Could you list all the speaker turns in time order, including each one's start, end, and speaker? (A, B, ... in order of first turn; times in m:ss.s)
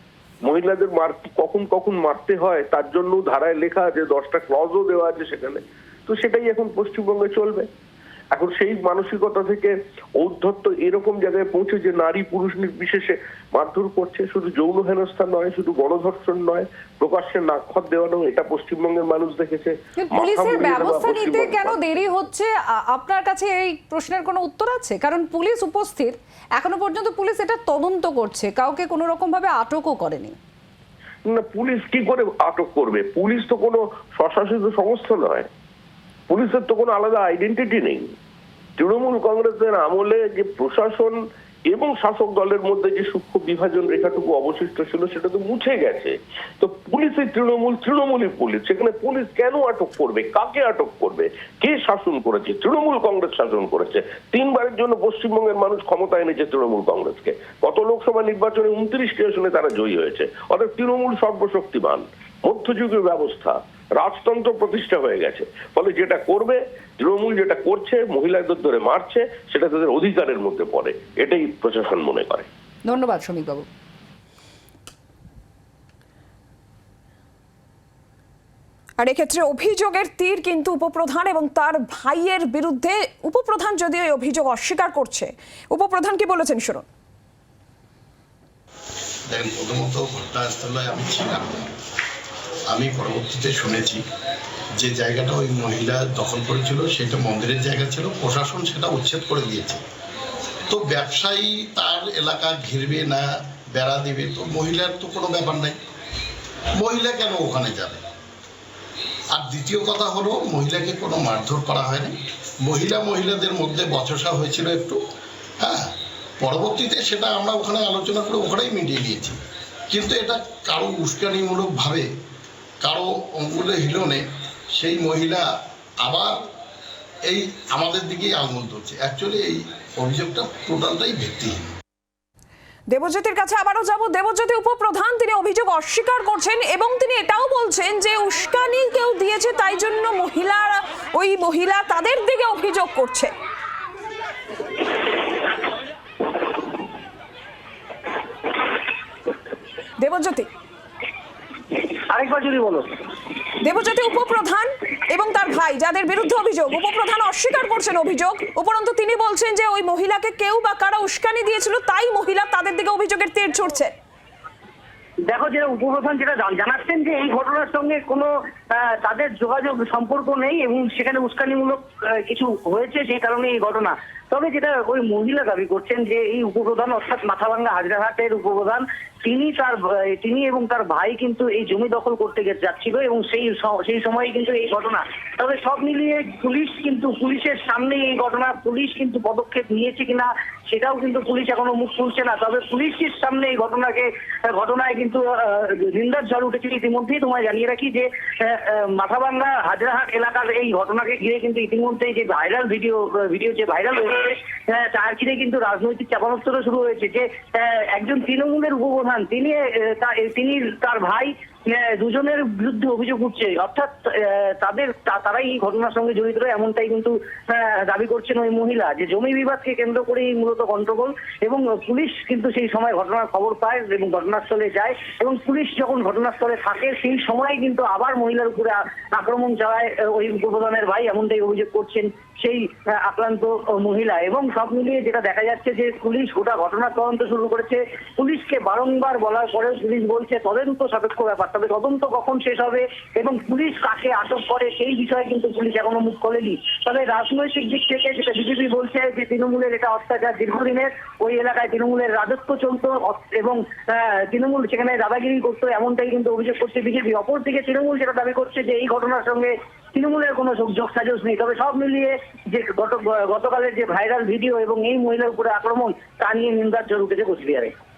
0:00.4-0:07.7 A
0:08.3-0:21.8 A
0:20.0-0:30.4 B
0:31.3-0:35.5 A
0:36.3-0:38.0 A
0:38.8-0:41.2 A
0:41.7-1:12.5 A
1:12.8-1:13.6 B
1:19.0-1:26.8 C
1:29.3-1:31.7 D
1:32.7-1:34.0 D
1:34.8-1:39.8 D
1:40.7-1:45.8 D
1:46.8-1:48.0 D
1:49.3-1:52.1 D
1:52.6-1:55.0 D
1:55.6-1:55.9 D
1:56.4-1:59.4 D
1:59.9-2:02.0 D
2:02.8-2:05.5 D
2:06.0-2:06.3 D
2:07.2-2:11.7 D
2:12.9-2:23.3 C
2:30.0-2:30.5 C
2:32.1-2:32.9 E
2:33.6-2:43.9 C
2:45.3-4:27.7 E